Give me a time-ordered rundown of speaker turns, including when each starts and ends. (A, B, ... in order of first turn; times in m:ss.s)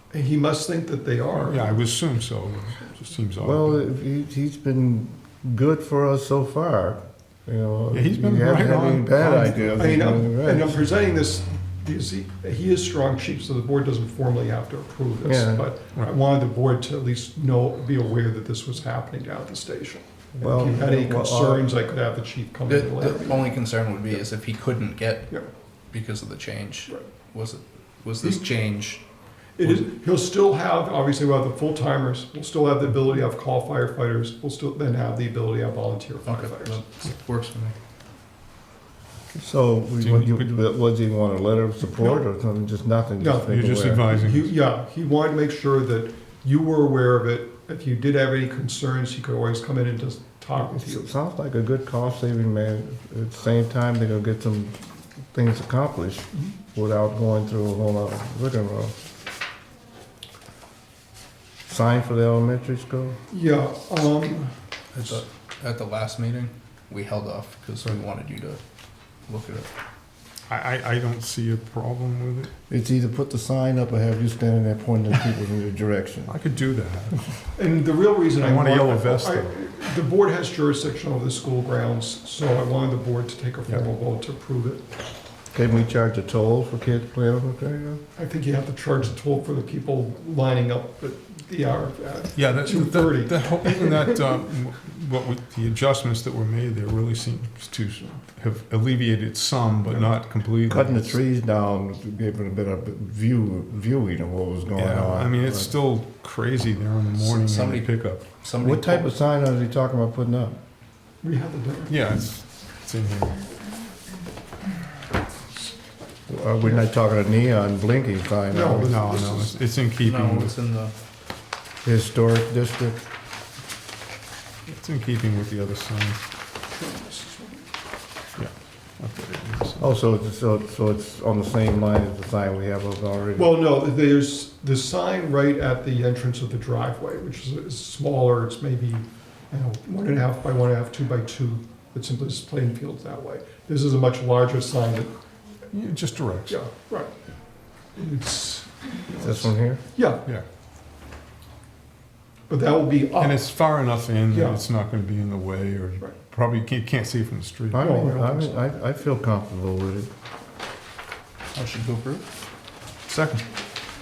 0:00.1-0:01.8 A
0:01.3-0:03.8 B
0:03.4-0:10.7 C
0:07.9-0:09.8 B
0:09.8-0:23.5 A
0:15.2-0:15.7 C
0:20.4-0:21.7 C
0:22.7-0:25.4 D
0:25.9-0:29.0 D
0:29.6-0:36.8 A
0:36.2-0:37.8 D
0:39.3-0:44.1 C
0:40.0-0:40.5 B
0:43.2-0:51.1 A
0:43.4-0:44.5 B
0:50.6-0:58.9 C
1:01.7-1:03.2 C
1:03.3-1:04.5 A
1:04.9-1:08.6 D
1:09.2-1:09.7 D
1:10.5-1:12.5 B
1:12.7-1:16.3 C
1:16.3-1:17.2 B
1:17.6-1:24.8 A
1:18.3-1:19.5 B
1:25.5-1:28.0 C
1:28.2-1:34.0 A
1:32.3-1:41.2 B
1:40.6-1:45.7 C
1:44.7-1:48.3 B
1:47.2-1:49.1 D
1:48.6-1:50.6 C
1:51.2-1:52.0 A
1:51.9-1:53.4 B
1:56.3-1:59.0 C
1:58.5-1:59.5 A
1:58.8-2:00.6 B
2:00.0-2:00.9 D
2:01.8-2:03.1 C
2:04.7-2:06.2 B
2:06.7-2:07.6 A
2:08.4-2:09.9 B
2:09.8-2:13.6 C
2:13.4-2:25.1 A
2:25.7-2:26.6 B
2:26.5-2:27.1 A
2:27.9-2:30.2 A
2:29.1-2:29.8 C
2:32.5-2:33.4 A
2:33.2-2:37.8 B
2:34.3-2:34.6 A
2:37.7-2:40.1 C
2:37.8-2:38.6 A
2:41.5-2:42.2 D
2:43.1-2:43.4 B